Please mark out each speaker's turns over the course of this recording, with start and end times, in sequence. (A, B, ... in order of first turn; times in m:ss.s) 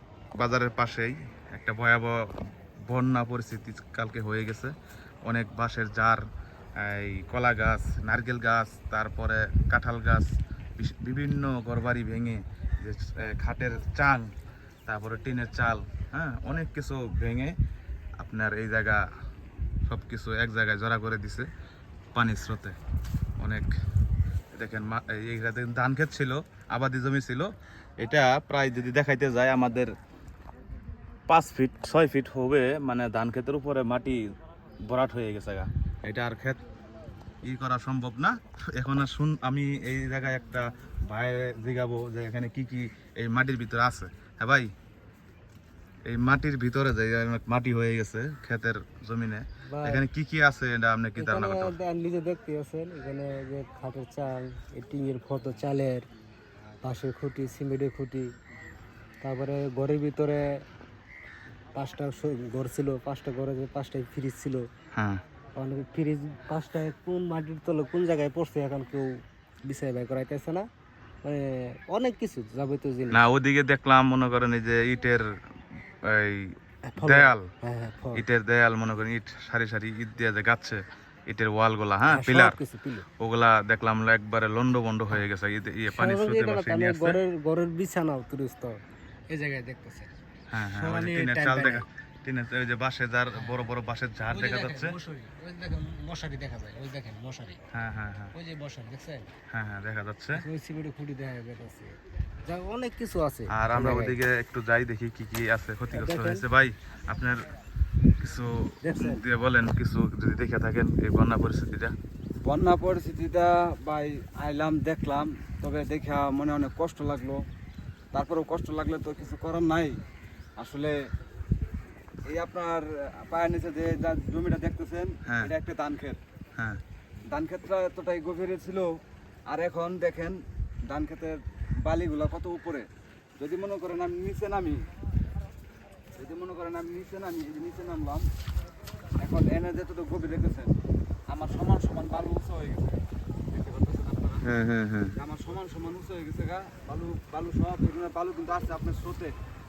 0:00.4-0:02.2 A
0:02.9-0:04.7 A
0:05.2-0:06.2 A
0:06.8-0:14.3 A
0:14.9-0:17.6 A
0:18.2-0:19.0 A
0:19.9-0:21.5 A
0:22.1-0:22.8 A
0:23.4-0:23.7 A
0:24.5-0:29.9 A
0:31.3-0:34.3 A
0:34.8-0:36.6 A
0:37.4-0:44.7 A
0:46.0-0:51.8 A
0:49.7-0:50.0 B
0:51.2-0:56.0 B
0:56.8-0:58.3 B
0:59.2-1:00.6 B
1:01.7-1:04.6 B
1:04.9-1:05.2 A
1:05.6-1:09.1 B
1:09.6-1:10.6 B
1:11.2-1:13.2 B
1:13.1-1:15.2 A
1:16.0-1:17.5 A
1:16.9-1:18.2 B
1:18.1-1:22.6 A
1:22.1-1:23.0 B
1:23.2-1:27.2 A
1:25.9-1:28.8 B
1:29.3-1:30.1 B
1:30.5-1:35.0 A
1:30.6-1:31.8 B
1:34.3-1:37.6 B
1:37.7-1:38.3 A
1:38.3-1:39.3 B
1:39.5-1:40.4 A
1:40.3-1:44.2 B
1:43.5-1:47.4 A
1:45.9-1:46.4 B
1:48.2-1:51.9 A
1:48.8-1:49.2 B
1:52.4-1:57.4 C
1:58.1-2:00.0 C
2:00.6-2:01.0 C
2:02.3-2:06.2 C
2:05.2-2:05.5 A
2:07.3-2:08.9 C
2:09.5-2:14.8 C
2:16.2-2:18.2 C
2:19.2-2:20.7 C
2:21.3-2:24.5 C
2:24.4-2:25.1 A
2:25.2-2:29.3 C